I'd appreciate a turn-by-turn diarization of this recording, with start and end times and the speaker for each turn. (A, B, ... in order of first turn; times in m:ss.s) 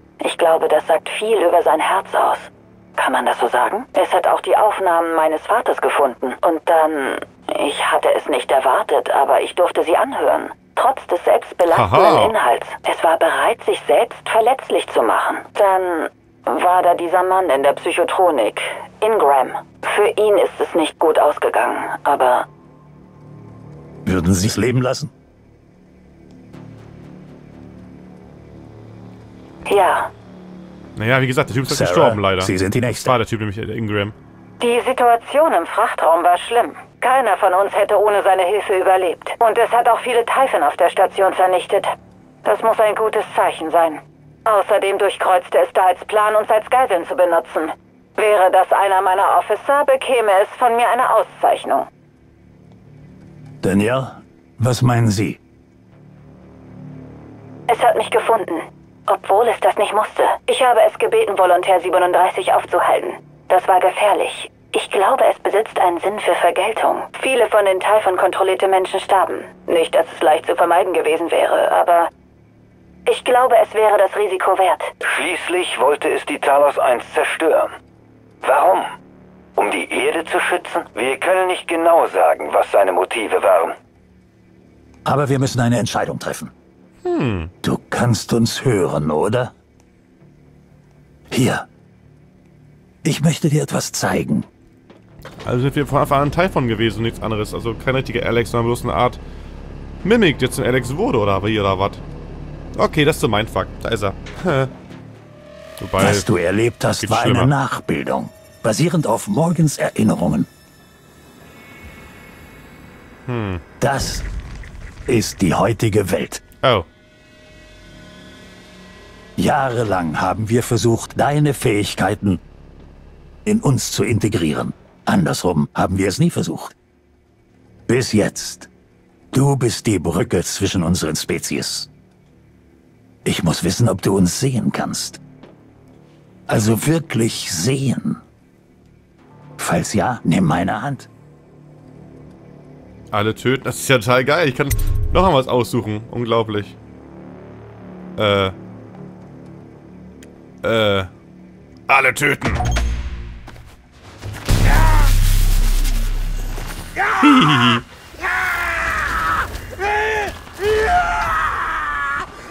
0:00.2-0:22.5 A
0:11.7-0:12.4 B
0:24.0-0:25.1 C
0:29.7-0:30.1 A
0:31.0-0:34.2 B
0:31.7-0:33.2 C
0:34.6-0:41.9 A
0:42.4-0:51.9 A
0:53.6-0:55.4 C
0:57.7-1:12.1 A
1:13.1-1:14.9 A
1:15.1-1:17.7 D
1:18.4-1:18.9 D
1:19.6-1:23.8 D
1:25.0-1:26.5 C
1:27.0-1:27.5 B
1:27.6-1:29.5 C
1:31.3-1:31.7 C
1:33.0-1:34.5 C
1:35.4-1:39.2 B
1:40.0-1:42.0 B
1:42.8-1:44.7 B
1:45.8-1:46.3 B
1:46.0-1:50.5 C
1:47.0-1:47.5 B
1:53.3-1:53.6 B
1:53.8-1:54.3 C
1:55.1-1:56.4 C
1:56.6-1:56.9 B
1:59.4-2:02.4 C
2:03.5-2:06.7 C
2:07.9-2:08.7 C
2:09.3-2:11.9 C
2:13.2-2:15.2 C
2:16.5-2:18.2 C
2:19.6-2:21.1 C
2:23.1-2:26.8 B
2:28.2-2:28.6 B
2:30.6-2:31.1 B
2:31.9-2:32.7 B
2:37.1-2:37.8 B